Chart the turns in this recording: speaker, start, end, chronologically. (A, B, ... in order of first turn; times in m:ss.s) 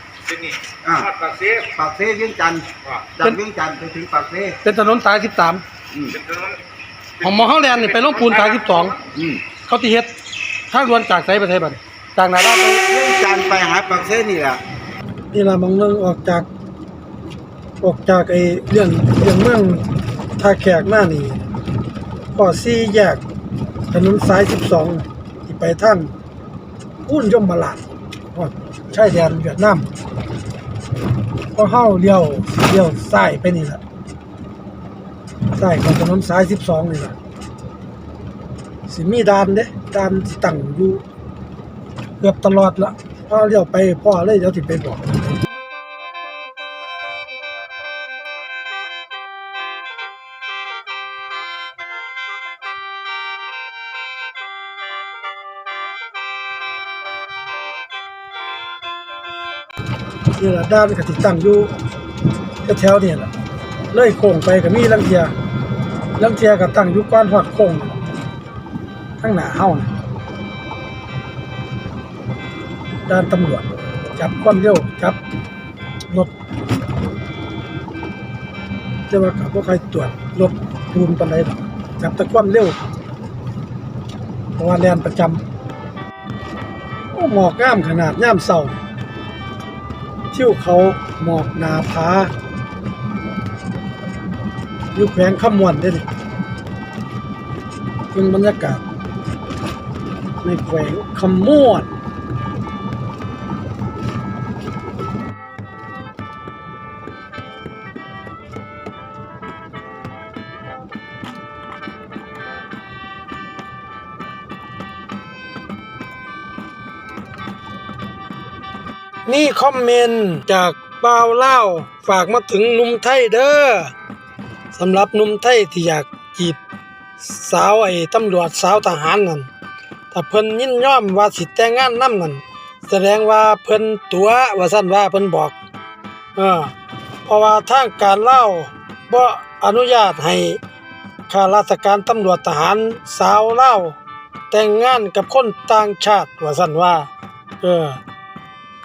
0:00.3-0:01.7 A
0:00.8-0:01.1 B
0:01.7-0:04.6 B
0:04.6-0:05.6 C
0:05.9-0:06.2 B
0:06.1-0:06.6 A
0:07.2-0:09.0 A
0:07.2-0:08.9 C
0:09.1-0:09.4 B
0:09.7-0:10.1 C
0:10.7-0:12.8 C
0:12.8-0:14.6 B
0:15.3-0:16.5 C
0:17.8-0:19.8 C
0:20.4-0:21.4 C
0:22.3-0:23.2 C
0:23.9-0:26.1 C
0:27.0-0:27.8 C
0:28.3-0:29.9 C
0:31.5-0:33.8 C
0:35.5-0:37.2 C
0:38.9-0:41.0 C
0:42.2-0:45.1 C
1:00.4-1:01.7 C
1:02.6-1:03.3 C
1:03.9-1:05.3 C
1:06.2-1:08.0 C
1:09.2-1:09.9 C
1:13.1-1:15.2 C
1:19.1-1:22.8 C
1:24.6-1:25.4 C
1:27.1-1:28.8 C
1:30.3-1:32.3 C
1:34.9-1:36.0 C
1:38.1-1:38.8 C
1:40.4-1:41.9 C
1:59.2-2:03.9 C
2:04.7-2:06.6 C
2:07.2-2:09.5 C
2:10.1-2:15.5 C
2:16.4-2:16.7 C
2:17.2-2:20.6 C
2:21.3-2:24.0 C
2:24.5-2:27.1 C
2:27.6-2:28.0 C